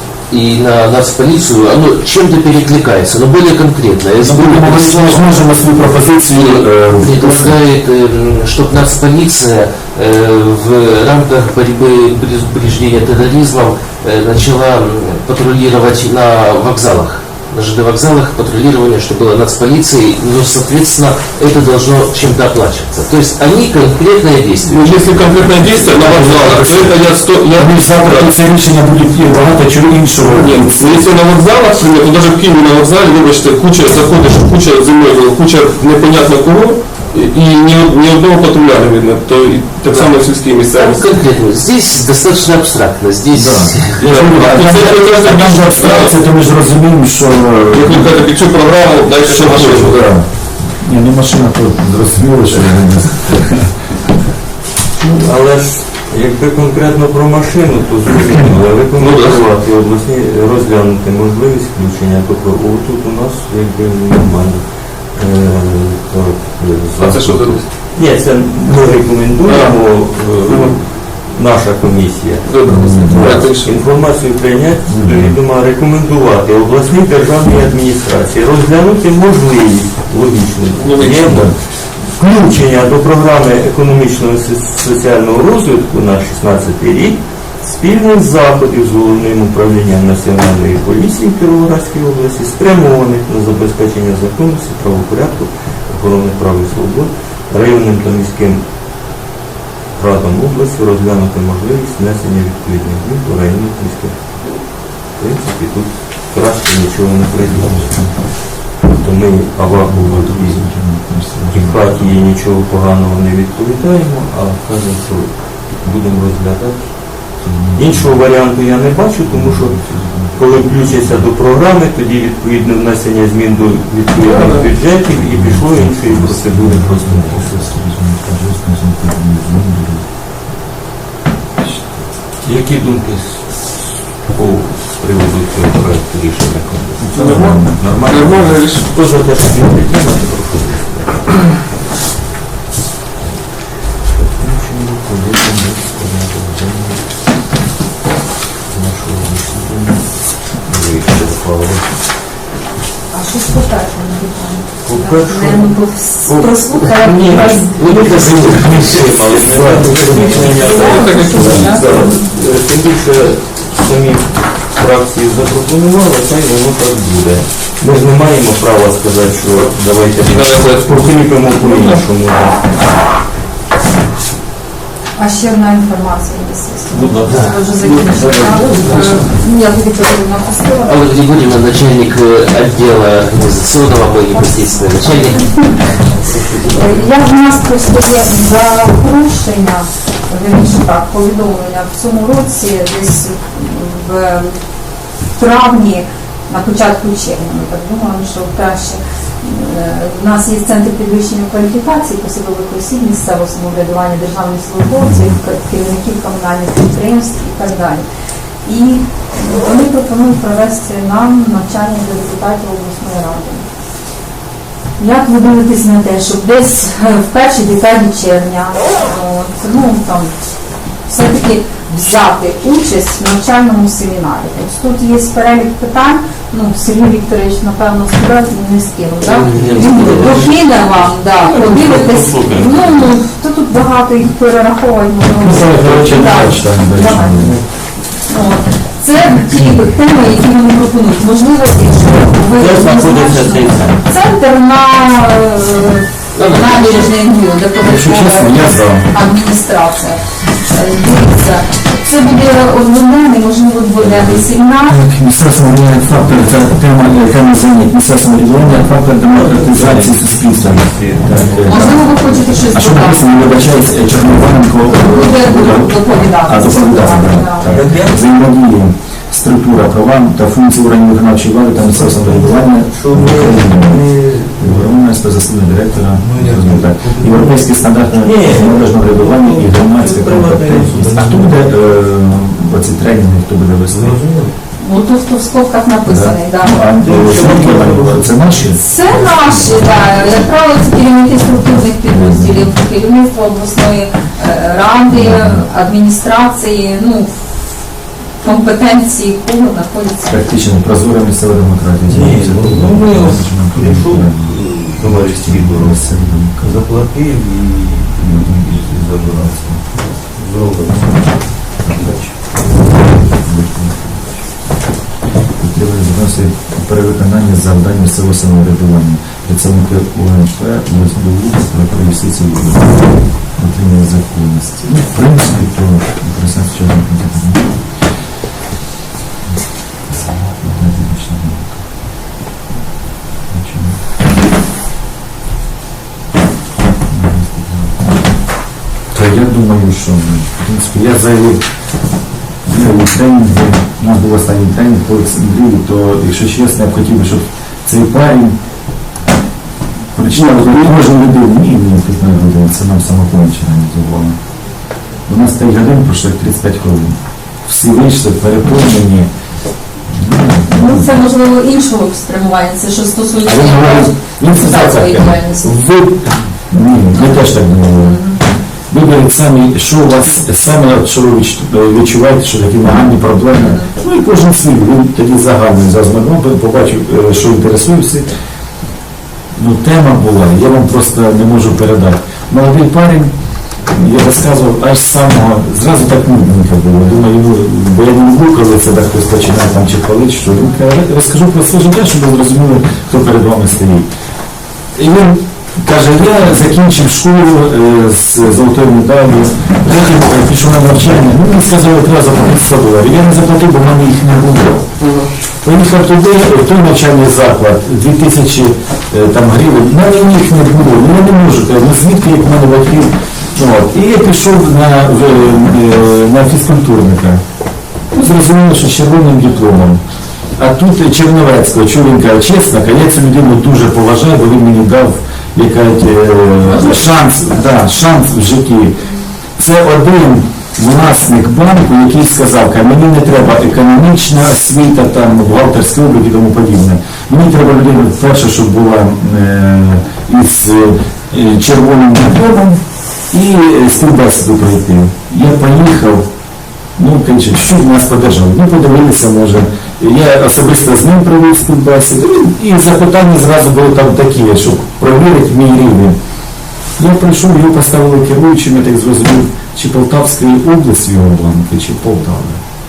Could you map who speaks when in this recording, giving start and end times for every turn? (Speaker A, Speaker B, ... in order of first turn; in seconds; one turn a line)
Speaker A: 0.3-5.3
Speaker B: 4.2-7.5
Speaker A: 6.3-25.4
Speaker C: 24.7-28.3
Speaker B: 25.9-31.1
Speaker C: 30.1-41.0
Speaker A: 39.9-44.4
Speaker B: 43.3-48.3
Speaker C: 44.0-46.2
Speaker C: 47.7-50.1
Speaker B: 49.2-53.7
Speaker D: 55.0-98.6
Speaker C: 58.9-59.4
Speaker C: 67.0-67.7
Speaker C: 69.4-70.7
Speaker C: 72.5-73.7
Speaker B: 72.7-73.5
Speaker B: 74.9-75.4
Speaker C: 80.8-81.5
Speaker D: 99.9-110.6
Speaker B: 107.6-108.1
Speaker B: 109.7-112.2
Speaker D: 111.5-119.8
Speaker B: 117.4-118.2
Speaker B: 119.3-121.3
Speaker D: 120.3-127.7
Speaker C: 124.2-124.7
Speaker B: 125.1-130.1
Speaker B: 131.6-131.9
Speaker D: 132.4-141.5
Speaker B: 137.0-137.8
Speaker C: 137.1-138.9
Speaker D: 143.2-147.0
Speaker D: 148.7-151.9
Speaker E: 153.1-158.2
Speaker D: 154.8-172.7
Speaker A: 157.4-159.4
Speaker B: 159.4-160.6
Speaker E: 160.1-162.2
Speaker C: 160.6-162.2
Speaker C: 170.2-172.0
Speaker E: 175.2-181.0
Speaker D: 176.9-179.1
Speaker C: 177.7-179.2
Speaker A: 180.8-185.6
Speaker E: 184.3-186.0
Speaker D: 186.1-187.1
Speaker E: 186.7-194.5
Speaker E: 195.3-208.0
Speaker B: 205.0-205.4
Speaker E: 208.6-213.7
Speaker E: 215.0-220.3
Speaker E: 221.1-237.6
Speaker D: 229.2-233.2
Speaker B: 235.3-237.6
Speaker D: 237.3-237.6
Speaker E: 238.2-255.0
Speaker D: 242.5-244.0
Speaker A: 246.4-247.1
Speaker B: 247.8-249.1
Speaker B: 254.9-284.2
Speaker D: 259.2-262.0
Speaker E: 261.6-263.7
Speaker E: 264.9-267.8
Speaker D: 267.6-268.2
Speaker D: 271.7-274.9
Speaker D: 276.1-281.8
Speaker D: 283.9-284.5
Speaker E: 284.8-286.9
Speaker B: 286.1-288.8
Speaker D: 287.0-290.1
Speaker E: 288.7-297.3
Speaker B: 292.1-292.7
Speaker B: 295.1-295.6
Speaker E: 298.4-300.4
Speaker B: 300.3-306.8
Speaker D: 302.1-312.9
Speaker B: 308.2-309.8
Speaker B: 311.8-314.4
Speaker B: 315.6-327.9
Speaker B: 330.0-331.8
Speaker B: 333.5-334.0
Speaker B: 337.1-338.1
Speaker B: 339.1-341.6
Speaker B: 342.6-348.6
Speaker B: 350.1-354.4
Speaker C: 350.3-351.0
Speaker B: 355.2-359.3
Speaker B: 360.1-361.1
Speaker E: 360.7-365.8
Speaker B: 363.4-368.2
Speaker E: 367.9-368.4
Speaker B: 368.9-378.3
Speaker E: 373.6-373.9
Speaker B: 379.5-383.3
Speaker B: 383.9-394.1
Speaker B: 394.9-404.9
Speaker C: 405.0-405.3
Speaker B: 405.6-417.4
Speaker B: 418.1-420.0
Speaker B: 420.6-429.0
Speaker B: 429.6-446.3
Speaker B: 447.0-456.2
Speaker B: 457.0-462.6